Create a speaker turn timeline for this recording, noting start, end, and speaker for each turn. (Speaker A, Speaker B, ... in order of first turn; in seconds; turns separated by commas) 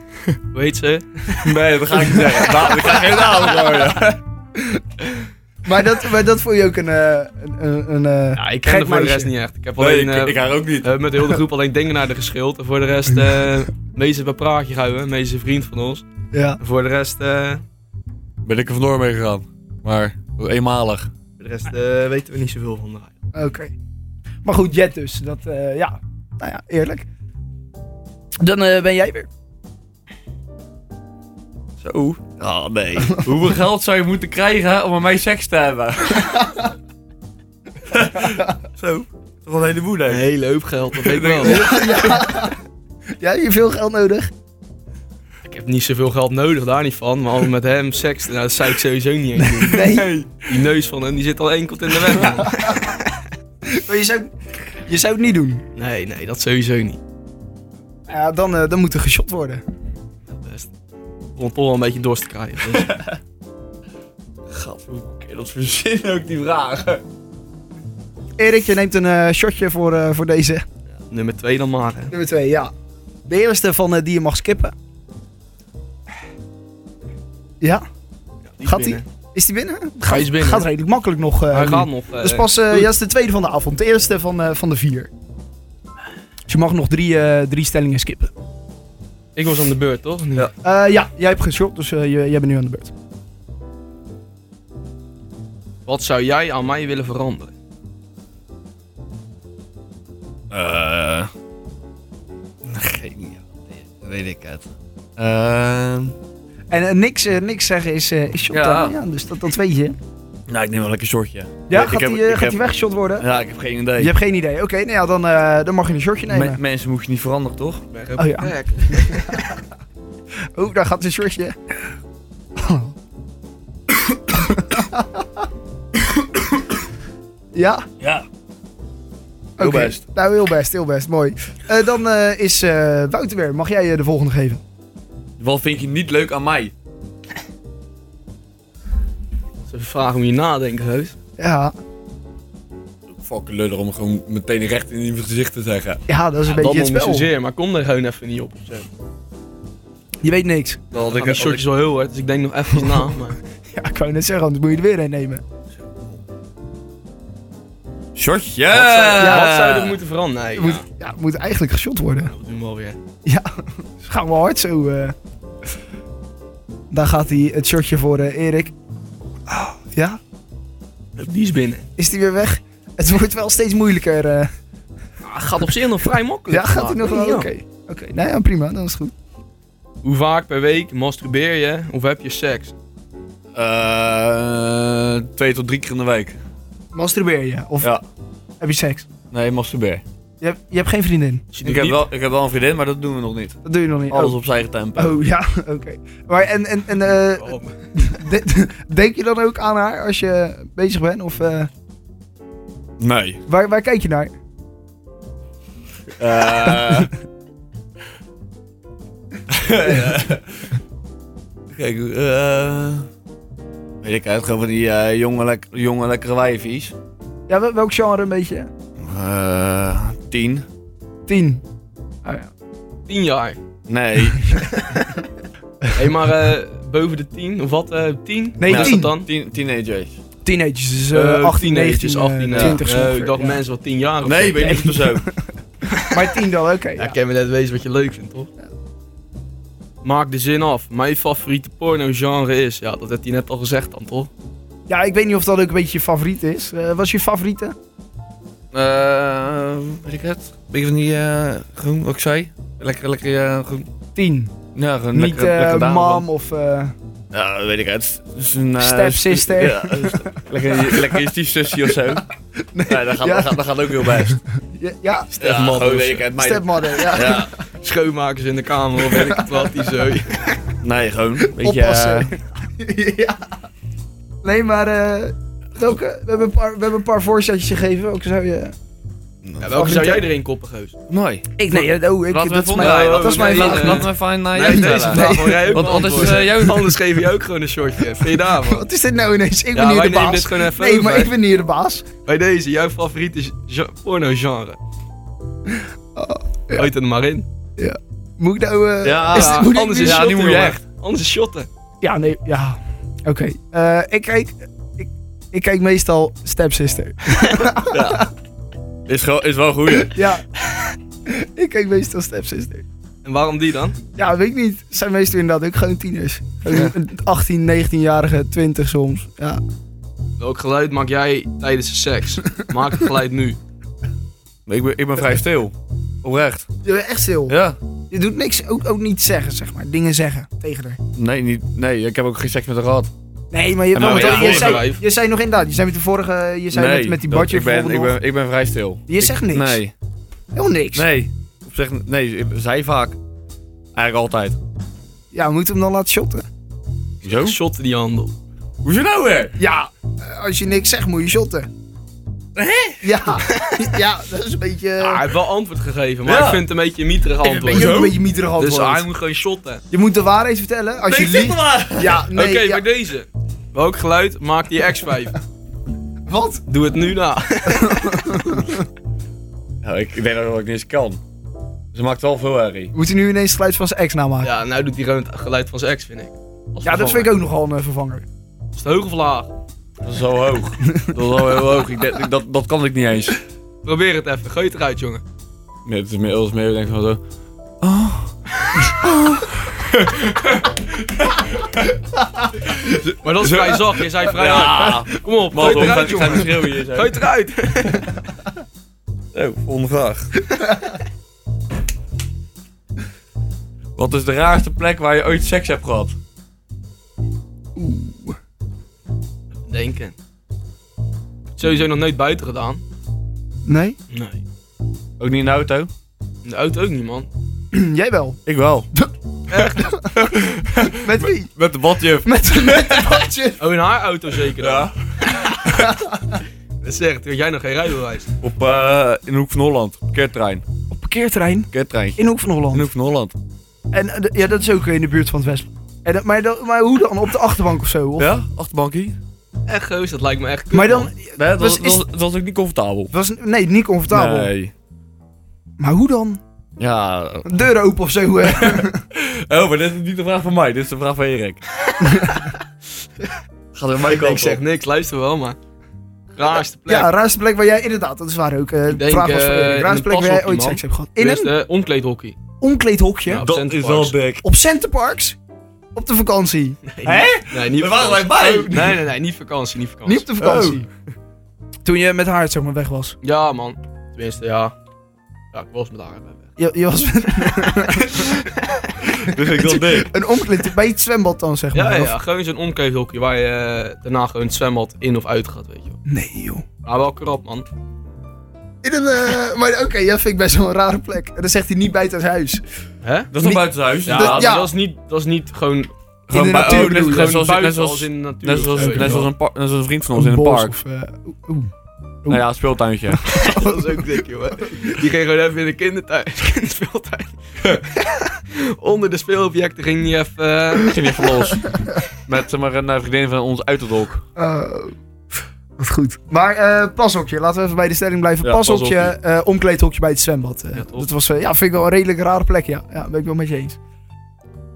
Speaker A: 0.5-1.6, Speaker B: 1.4-4.2, Speaker C: 1.9-2.4, Speaker A: 2.3-3.2, Speaker C: 5.7-9.3, Speaker A: 8.4-16.0, Speaker B: 9.8-10.9, Speaker C: 16.3-16.6, Speaker A: 16.6-17.6, Speaker B: 18.4-21.1, Speaker A: 21.4-23.1, Speaker C: 23.3-23.7, Speaker C: 24.4-27.1, Speaker C: 28.4-29.3, Speaker B: 31.8-36.6, Speaker B: 37.9-40.2, Speaker A: 40.1-42.2, Speaker B: 40.9-42.1, Speaker C: 41.4-42.6, Speaker C: 43.2-44.3, Speaker A: 45.5-49.9, Speaker C: 49.4-50.1, Speaker B: 49.7-50.4, Speaker A: 50.4-53.2, Speaker C: 52.1-52.8, Speaker C: 53.7-54.3, Speaker C: 54.9-55.6, Speaker A: 55.8-57.0, Speaker C: 58.1-59.6, Speaker A: 60.3-60.7, Speaker A: 61.4-62.9, Speaker B: 62.7-63.1, Speaker B: 64.5-67.0, Speaker C: 68.4-70.7, Speaker A: 71.0-72.1, Speaker C: 72.1-72.7, Speaker C: 73.3-74.7, Speaker A: 78.5-79.0, Speaker C: 78.6-85.1, Speaker A: 80.1-80.7, Speaker A: 81.5-82.9, Speaker C: 86.5-88.3, Speaker A: 89.4-90.5, Speaker C: 90.6-92.9, Speaker A: 95.9-97.5, Speaker B: 100.5-101.3, Speaker B: 102.6-106.2, Speaker C: 106.7-110.0, Speaker B: 108.5-109.0, Speaker B: 110.5-112.6, Speaker C: 111.7-113.3, Speaker B: 113.2-114.1, Speaker C: 114.0-116.6, Speaker B: 116.3-117.8, Speaker A: 117.9-119.5, Speaker C: 118.2-119.4, Speaker C: 120.6-121.5, Speaker C: 122.6-122.9, Speaker C: 124.4-125.2, Speaker C: 127.5-127.8, Speaker B: 128.0-128.3, Speaker B: 129.6-130.0, Speaker C: 129.6-134.6, Speaker B: 135.4-136.7, Speaker A: 139.7-141.2, Speaker C: 141.4-141.7, Speaker B: 143.1-146.0, Speaker C: 146.1-147.3, Speaker A: 146.5-148.9, Speaker C: 150.2-150.8, Speaker B: 150.9-151.6, Speaker A: 151.0-153.4, Speaker C: 153.8-155.4, Speaker B: 158.2-160.0, Speaker A: 158.7-160.8, Speaker C: 159.2-159.6, Speaker C: 160.6-162.3, Speaker A: 162.2-163.0, Speaker C: 163.2-165.2, Speaker C: 166.9-168.7, Speaker C: 169.5-170.2, Speaker A: 171.2-171.8, Speaker C: 172.0-174.5, Speaker A: 175.2-177.5, Speaker C: 176.5-179.1, Speaker A: 180.0-182.7, Speaker B: 183.6-186.4, Speaker C: 186.9-187.9, Speaker C: 188.6-189.1, Speaker B: 189.3-190.0, Speaker C: 190.4-191.5, Speaker A: 191.5-192.0, Speaker B: 191.7-193.6, Speaker C: 193.6-194.4, Speaker B: 194.1-195.2, Speaker C: 194.9-201.7, Speaker A: 197.2-197.8, Speaker B: 203.0-203.4, Speaker C: 203.5-204.3, Speaker B: 206.2-207.1, Speaker C: 206.7-207.1, Speaker B: 209.5-210.7, Speaker B: 211.7-213.1, Speaker B: 214.0-216.9, Speaker C: 217.5-218.7, Speaker B: 219.0-220.7, Speaker C: 221.3-221.6, Speaker A: 223.1-223.6, Speaker B: 223.9-224.6, Speaker A: 225.9-229.3, Speaker C: 228.6-229.1, Speaker B: 228.7-230.2, Speaker C: 230.4-233.6, Speaker A: 231.1-234.7, Speaker B: 234.2-235.2, Speaker C: 234.5-235.5, Speaker C: 236.1-237.2, Speaker A: 237.0-238.5, Speaker A: 240.0-244.3, Speaker C: 244.9-247.7, Speaker B: 248.7-253.9, Speaker C: 254.2-254.5, Speaker B: 254.8-256.2, Speaker C: 255.1-256.9, Speaker B: 257.3-262.3, Speaker C: 258.8-261.2, Speaker C: 262.7-265.4, Speaker B: 262.9-264.4, Speaker A: 265.4-266.3, Speaker B: 265.4-267.5, Speaker C: 266.3-267.6, Speaker A: 267.2-270.6, Speaker C: 269.1-269.5, Speaker B: 270.8-272.3, Speaker C: 271.4-273.4, Speaker C: 274.4-278.7, Speaker A: 279.6-280.9, Speaker C: 279.7-280.3, Speaker B: 281.1-286.9, Speaker C: 281.6-286.8, Speaker A: 282.8-288.9, Speaker C: 288.5-292.1, Speaker A: 289.7-291.3, Speaker A: 292.3-294.8, Speaker C: 296.1-296.9, Speaker A: 296.8-297.5, Speaker C: 297.8-300.3, Speaker B: 299.0-300.8, Speaker A: 299.3-301.7, Speaker C: 302.0-308.3, Speaker B: 307.9-308.3, Speaker B: 309.1-310.2, Speaker C: 309.9-310.4, Speaker C: 311.3-312.8, Speaker A: 313.2-314.0, Speaker C: 314.2-319.6, Speaker A: 320.4-323.6, Speaker B: 324.7-326.7, Speaker C: 326.8-327.6, Speaker B: 327.5-327.8, Speaker C: 328.1-331.0, Speaker B: 331.2-333.1, Speaker C: 333.5-338.2, Speaker B: 333.9-334.8, Speaker A: 334.0-335.0, Speaker B: 336.7-339.9, Speaker C: 339.1-339.8, Speaker C: 340.5-341.1, Speaker B: 340.9-343.2, Speaker B: 343.9-344.6, Speaker C: 345.3-346.4, Speaker B: 347.2-347.6, Speaker A: 347.4-348.3, Speaker B: 348.8-349.6, Speaker C: 349.6-351.7, Speaker B: 352.6-353.1, Speaker C: 353.0-355.2, Speaker A: 355.0-359.8, Speaker B: 356.2-356.6, Speaker C: 357.4-359.1, Speaker B: 357.7-358.0, Speaker C: 359.9-362.9, Speaker B: 361.0-362.2, Speaker A: 362.3-365.4, Speaker C: 366.3-366.6, Speaker A: 366.7-368.4, Speaker C: 367.7-368.8, Speaker B: 369.8-371.2, Speaker B: 371.9-372.9, Speaker C: 372.9-374.5, Speaker A: 374.4-377.3, Speaker C: 376.8-378.2, Speaker A: 378.7-379.5, Speaker B: 380.0-383.4, Speaker A: 383.8-385.2, Speaker B: 385.9-387.2, Speaker B: 387.8-388.3, Speaker B: 388.9-391.5, Speaker A: 393.2-398.1, Speaker B: 394.3-397.2, Speaker C: 395.6-396.5, Speaker B: 399.3-400.3, Speaker B: 404.0-406.2, Speaker C: 407.8-408.4, Speaker A: 409.7-410.2, Speaker A: 411.5-412.8, Speaker C: 413.7-414.0, Speaker A: 414.1-414.4, Speaker B: 415.2-415.9, Speaker A: 416.4-417.3, Speaker C: 417.7-418.4, Speaker B: 418.5-418.9, Speaker A: 419.5-419.9, Speaker C: 419.6-420.3, Speaker B: 420.2-423.2, Speaker C: 420.9-421.5, Speaker C: 422.2-423.6, Speaker A: 423.6-425.9, Speaker B: 424.6-424.9, Speaker C: 425.8-426.4, Speaker A: 426.8-428.3, Speaker B: 428.4-430.6, Speaker C: 430.9-432.9, Speaker B: 431.7-433.3, Speaker C: 433.9-438.3, Speaker B: 438.2-439.2, Speaker A: 439.7-441.1, Speaker C: 440.7-442.1, Speaker B: 441.4-443.1, Speaker C: 443.1-444.5, Speaker B: 444.1-444.7, Speaker C: 445.8-446.4, Speaker B: 446.8-447.6, Speaker C: 447.4-449.0, Speaker B: 448.5-451.6, Speaker C: 452.0-452.6, Speaker B: 453.7-454.6, Speaker A: 454.0-455.6, Speaker A: 456.4-457.1, Speaker C: 456.9-461.5, Speaker A: 458.9-462.4, Speaker C: 462.6-463.5, Speaker A: 463.3-464.2, Speaker B: 463.4-464.4, Speaker C: 464.4-465.4, Speaker C: 465.9-466.9, Speaker A: 466.9-470.7, Speaker B: 467.1-469.1, Speaker C: 470.1-470.9, Speaker B: 470.4-470.8, Speaker C: 471.8-473.2, Speaker A: 473.2-474.8, Speaker A: 475.5-476.5, Speaker C: 476.6-478.4, Speaker C: 479.1-482.2, Speaker B: 479.2-480.1, Speaker A: 481.7-486.0, Speaker C: 486.1-486.6, Speaker A: 486.9-487.7, Speaker C: 488.8-492.6, Speaker A: 493.0-493.3, Speaker B: 493.3-494.5, Speaker C: 493.4-494.8, Speaker A: 494.1-499.3, Speaker C: 496.3-497.4, Speaker B: 496.3-500.8, Speaker C: 498.8-499.3, Speaker C: 500.1-501.7, Speaker B: 502.3-503.2, Speaker C: 503.1-504.0, Speaker A: 503.3-510.9, Speaker B: 510.8-514.2, Speaker C: 514.4-514.9, Speaker C: 515.8-523.8, Speaker B: 518.4-519.1, Speaker A: 520.8-521.1